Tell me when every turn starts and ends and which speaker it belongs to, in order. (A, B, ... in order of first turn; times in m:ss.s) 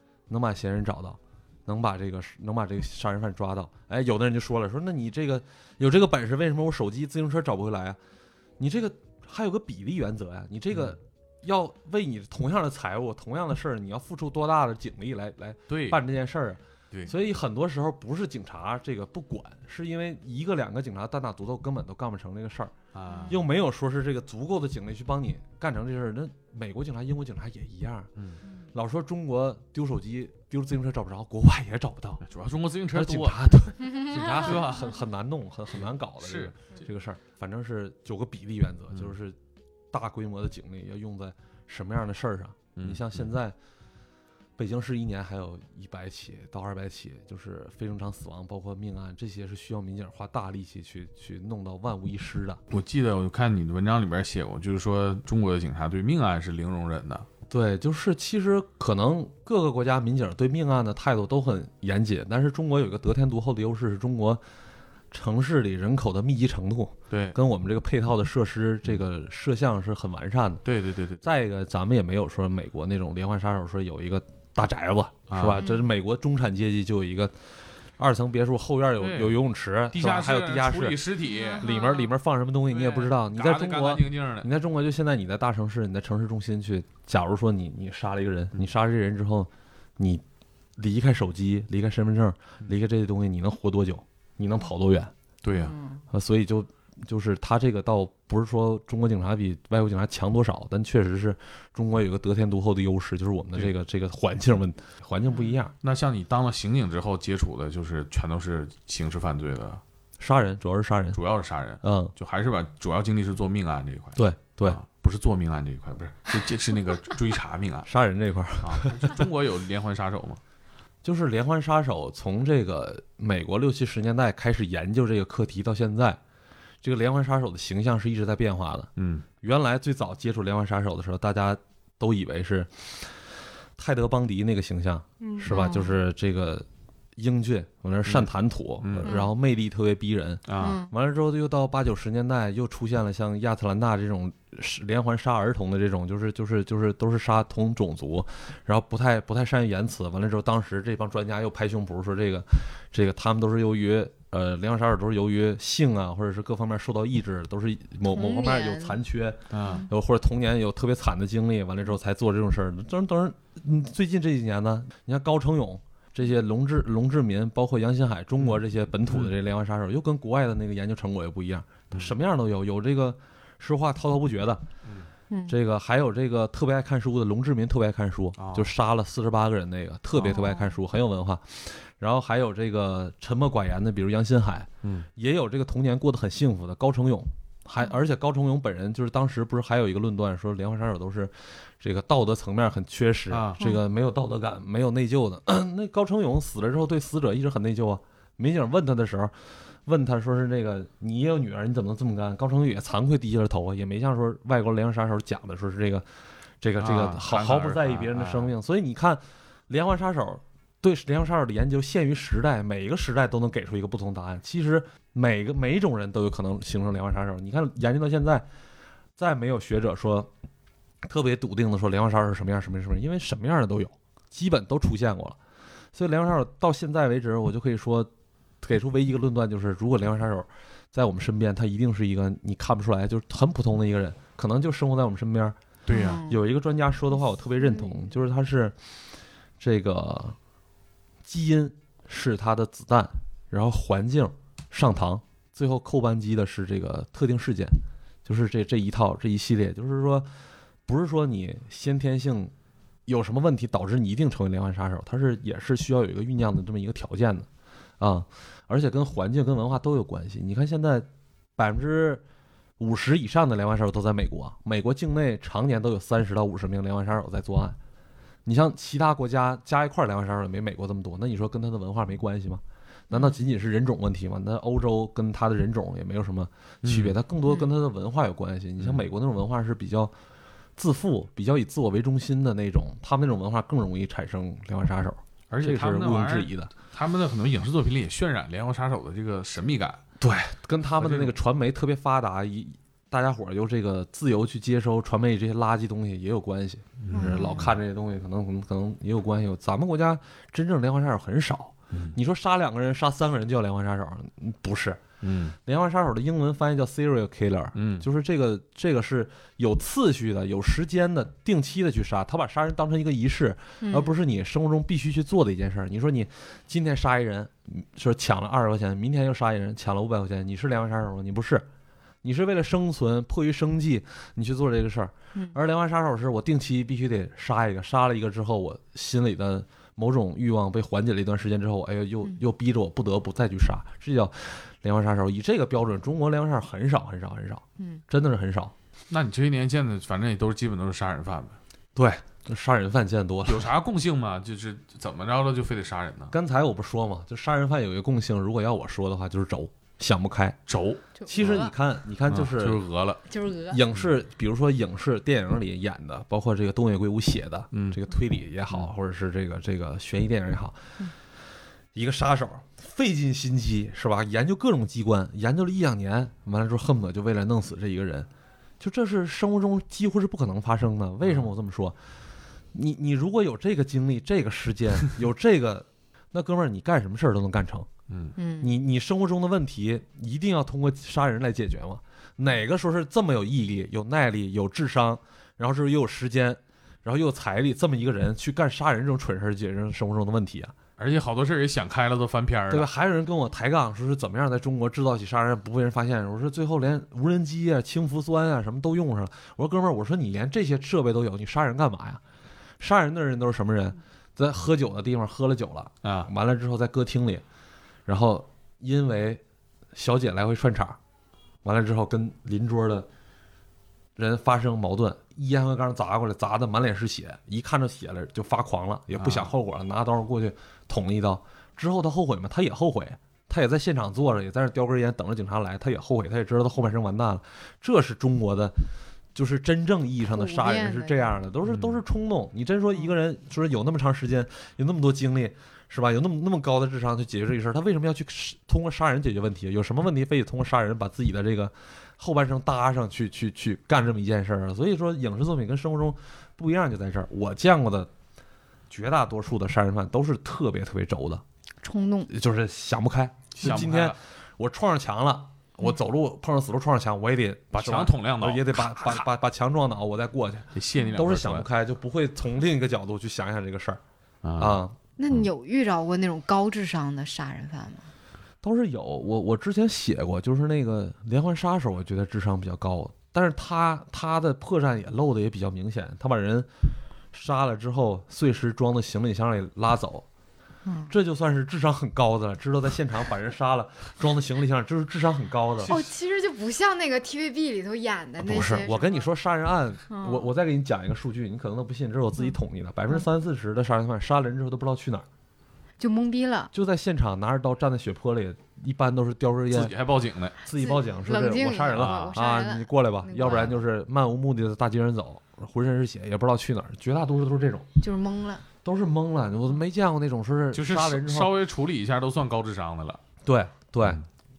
0:00.3-0:08.0 A
0:08.6-0:22.7 A
0:15.7-0:16.0 B
0:22.9-0:23.4 B
0:23.1-0:23.4 C
0:23.3-0:28.1 A
0:28.2-0:28.4 B
0:28.7-0:32.2 A
0:32.2-0:33.5 B
0:32.9-0:39.4 A
0:34.1-0:34.5 C
0:34.1-0:35.0 B
0:36.2-0:36.8 B
0:39.9-0:43.5 A
0:42.8-0:43.3 B
0:44.6-0:52.6 A
0:52.7-0:57.3 B
0:57.5-1:04.4 A
1:05.1-1:10.6 A
1:07.1-1:07.4 B
1:10.6-1:11.2 B
1:11.2-1:17.3 A
1:15.3-1:15.6 B
1:15.6-1:15.8 C
1:18.0-1:21.0 A
1:19.0-1:21.7 B
1:21.2-1:22.1 C
1:21.6-1:30.2 A
1:22.7-1:24.5 B
1:30.8-1:35.1 A
1:35.4-1:35.7 B
1:35.5-1:36.0 C
1:36.1-1:45.7 A
1:45.3-1:45.5 C
1:45.8-1:49.8 B
1:50.2-1:51.2 A
1:51.1-1:57.9 B
1:51.8-1:52.1 A
1:54.2-1:54.8 A
1:57.8-1:59.2 A
1:58.6-2:00.4 B
2:01.0-2:06.2 A
2:06.8-2:08.9 A
2:09.0-2:09.2 B
2:09.4-2:13.1 A
2:13.8-2:54.6 A
2:15.3-2:16.0 C
2:18.8-2:19.1 B
2:19.0-2:19.3 C
2:20.5-2:20.8 B
2:20.6-2:20.9 C
2:38.1-2:39.0 C
2:39.5-2:39.9 B
2:48.4-2:49.3 B
2:55.3-2:55.5 C
2:55.5-3:19.3 A
2:58.4-2:58.7 B
3:00.2-3:00.8 C
3:13.3-3:13.6 B
3:19.8-3:26.0 A
3:26.6-3:38.4 A
3:26.8-3:28.5 B
3:39.2-3:40.3 A
3:41.0-3:45.4 A
3:45.9-3:48.1 A
3:48.6-3:55.6 A
3:55.8-3:56.2 B
3:55.9-3:56.4 C
3:56.2-3:58.7 A
3:57.6-3:58.1 C
3:59.6-4:00.4 A
4:01.2-4:10.3 A
4:10.8-4:12.5 A
4:13.1-4:17.5 A
4:18.0-4:22.2 A
4:22.8-4:27.8 A
4:28.4-4:40.1 A
4:33.1-4:33.4 C
4:36.8-4:37.2 B
4:37.4-4:37.7 C
4:40.8-4:46.7 A
4:45.5-4:50.0 B
4:50.2-5:05.0 A
4:50.9-4:51.3 B
4:57.0-4:57.7 B
4:57.1-4:57.6 C
5:05.2-5:05.6 B
5:05.6-5:21.7 A
5:07.7-5:08.0 B
5:13.8-5:14.2 C
5:22.2-5:38.7 A
5:39.1-5:41.6 B
5:41.9-5:43.7 A
5:43.4-5:46.3 B
5:46.3-5:50.6 A
5:50.7-5:51.6 B
5:51.2-5:51.7 C
5:51.3-5:52.8 A
5:52.3-5:53.2 B
5:53.3-5:53.8 C
5:53.7-6:00.8 A
5:57.7-5:58.0 B
6:01.9-6:08.3 A
6:08.8-6:12.0 A
6:11.2-6:11.5 B
6:12.7-6:17.9 A
6:18.1-6:18.3 B
6:18.4-6:18.7 C
6:18.6-6:30.7 A
6:31.0-6:32.9 B
6:32.7-6:42.2 A
6:42.8-6:47.4 A
6:46.0-6:46.3 B
6:48.0-6:49.4 A
6:49.9-6:51.0 A
6:51.6-6:53.1 A
6:54.2-7:08.7 A
6:59.2-6:59.5 B
7:09.3-7:28.1 A
7:10.3-7:11.4 C
7:11.7-7:12.0 B
7:28.9-7:31.4 A
7:31.8-7:32.3 C
7:32.3-7:44.0 A
7:33.5-7:34.2 B
7:37.7-7:39.2 B
7:40.7-7:41.7 B
7:44.4-7:45.5 B
7:44.6-7:44.9 A
7:45.2-7:48.1 C
7:48.6-7:56.7 A
7:57.3-8:00.2 A
8:00.8-8:01.1 C
8:01.1-8:06.0 A
8:05.9-8:09.3 C
8:08.4-8:15.2 A
8:10.1-8:10.5 C
8:16.0-8:16.7 C
8:16.7-8:19.9 A
8:19.7-8:20.6 B
8:20.6-8:27.9 A
8:20.7-8:23.8 C
8:21.9-8:22.3 B
8:28.0-8:28.6 C
8:28.8-8:31.5 A
8:30.7-8:33.2 B
8:33.4-8:34.2 A